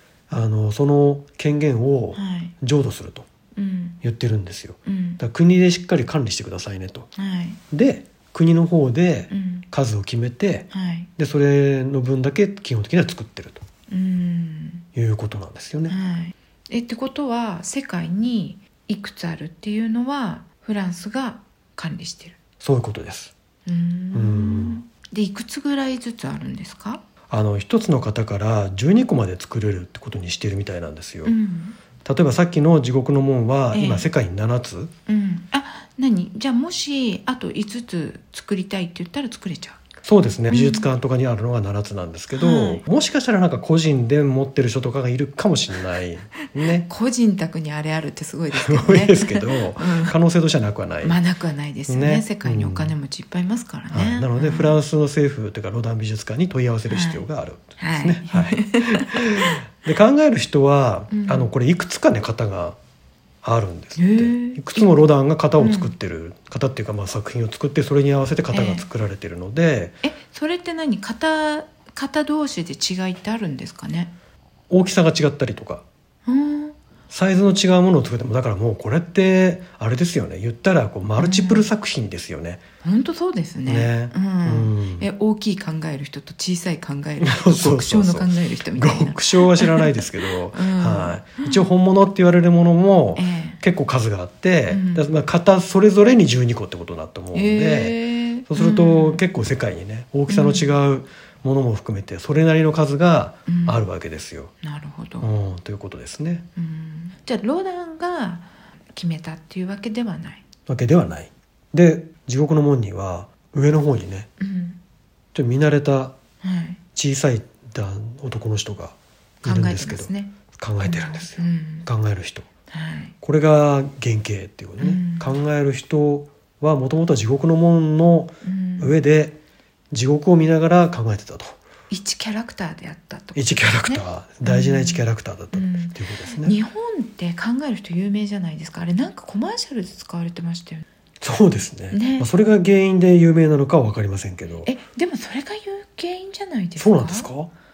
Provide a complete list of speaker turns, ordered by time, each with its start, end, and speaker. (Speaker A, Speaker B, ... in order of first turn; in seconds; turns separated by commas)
Speaker A: 0.3-3.3, Speaker B: 2.1-2.5, Speaker B: 3.5-4.0, Speaker A: 4.0-7.1, Speaker B: 4.8-5.2, Speaker B: 7.2-7.6, Speaker A: 7.7-13.6, Speaker B: 9.3-9.7, Speaker B: 10.7-11.1, Speaker B: 13.9-14.8, Speaker A: 14.9-16.0, Speaker B: 15.9-22.4, Speaker A: 22.6-23.3, Speaker B: 23.6-27.0, Speaker A: 24.1-24.8, Speaker A: 27.3-31.3, Speaker B: 31.2-31.8, Speaker A: 32.0-34.9, Speaker B: 33.7-34.1, Speaker B: 35.1-39.8, Speaker A: 40.0-46.9, Speaker B: 40.5-40.9, Speaker B: 42.3-42.8, Speaker B: 46.8-50.1, Speaker A: 48.5-51.2, Speaker B: 51.0-54.8, Speaker A: 51.9-52.9, Speaker A: 53.9-62.8, Speaker B: 56.9-57.2, Speaker B: 57.8-59.5, Speaker B: 61.1-61.5, Speaker A: 63.4-70.0, Speaker B: 64.0-65.0, Speaker B: 65.6-65.9, Speaker B: 68.5-68.9, Speaker B: 70.0-74.1, Speaker A: 74.7-75.8, Speaker B: 76.2-76.8, Speaker A: 77.1-82.6, Speaker B: 81.2-81.7, Speaker B: 82.8-91.6, Speaker A: 83.7-85.0, Speaker A: 87.2-104.5, Speaker B: 93.2-93.6, Speaker B: 94.7-95.0, Speaker B: 97.3-99.2, Speaker B: 100.3-100.7, Speaker B: 103.5-103.8, Speaker B: 104.6-105.3, Speaker A: 105.2-106.5, Speaker B: 106.5-110.4, Speaker A: 110.7-114.3, Speaker B: 114.4-114.8, Speaker A: 115.3-116.1, Speaker B: 116.4-116.8, Speaker A: 116.9-122.5, Speaker B: 119.4-121.9, Speaker B: 122.7-123.1, Speaker A: 123.2-129.4, Speaker B: 124.8-125.3, Speaker B: 128.4-128.9, Speaker A: 129.9-131.6, Speaker B: 131.9-140.8, Speaker A: 133.3-136.6, Speaker A: 141.2-144.7, Speaker B: 141.9-142.3, Speaker B: 144.6-147.3, Speaker A: 146.8-147.5